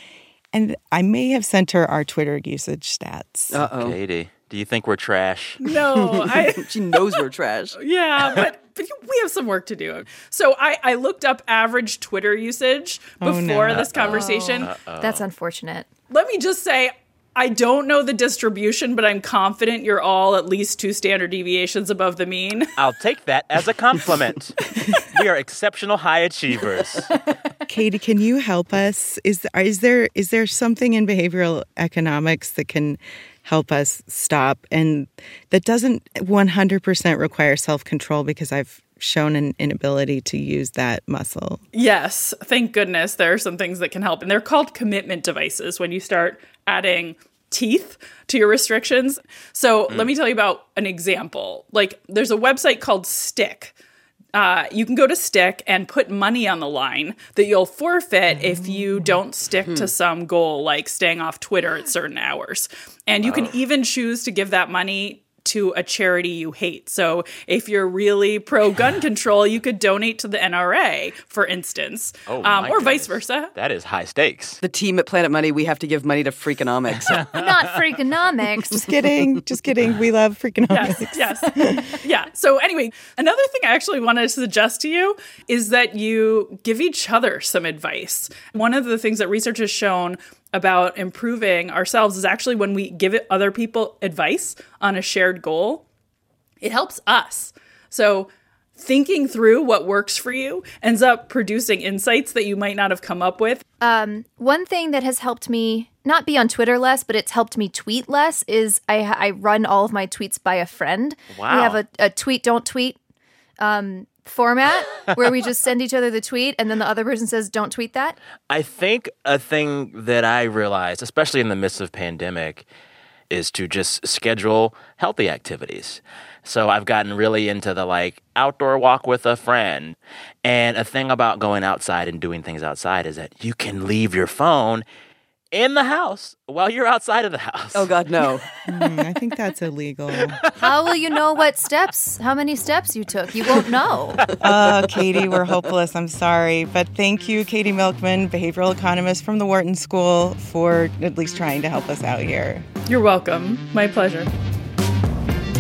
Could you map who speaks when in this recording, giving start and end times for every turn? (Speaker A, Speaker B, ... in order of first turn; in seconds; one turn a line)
Speaker A: 0.5-3.6
Speaker B: 3.5-4.0
Speaker C: 3.6-5.6
Speaker D: 5.6-14.7
Speaker B: 6.6-7.8
Speaker A: 13.2-14.0
Speaker C: 13.7-15.3
Speaker E: 14.2-15.9
Speaker D: 16.1-22.7
Speaker C: 22.8-27.1
Speaker A: 27.7-41.6
Speaker D: 41.7-53.7
Speaker D: 54.3-73.5
Speaker A: 58.5-59.0
Speaker C: 63.2-63.6
Speaker C: 72.3-74.6
Speaker B: 74.6-77.3
Speaker C: 77.0-77.9
Speaker E: 77.3-78.5
Speaker A: 78.8-82.0
Speaker D: 80.7-95.8
Speaker D: 96.6-103.6
Speaker E: 103.8-113.0
Speaker C: 111.3-111.8
Speaker E: 113.6-118.2
Speaker C: 118.5-122.6
Speaker C: 123.3-134.8
Speaker C: 135.5-138.3
Speaker B: 137.7-138.4
Speaker A: 138.6-140.4
Speaker E: 140.6-144.2
Speaker A: 144.4-152.7
Speaker D: 152.9-154.3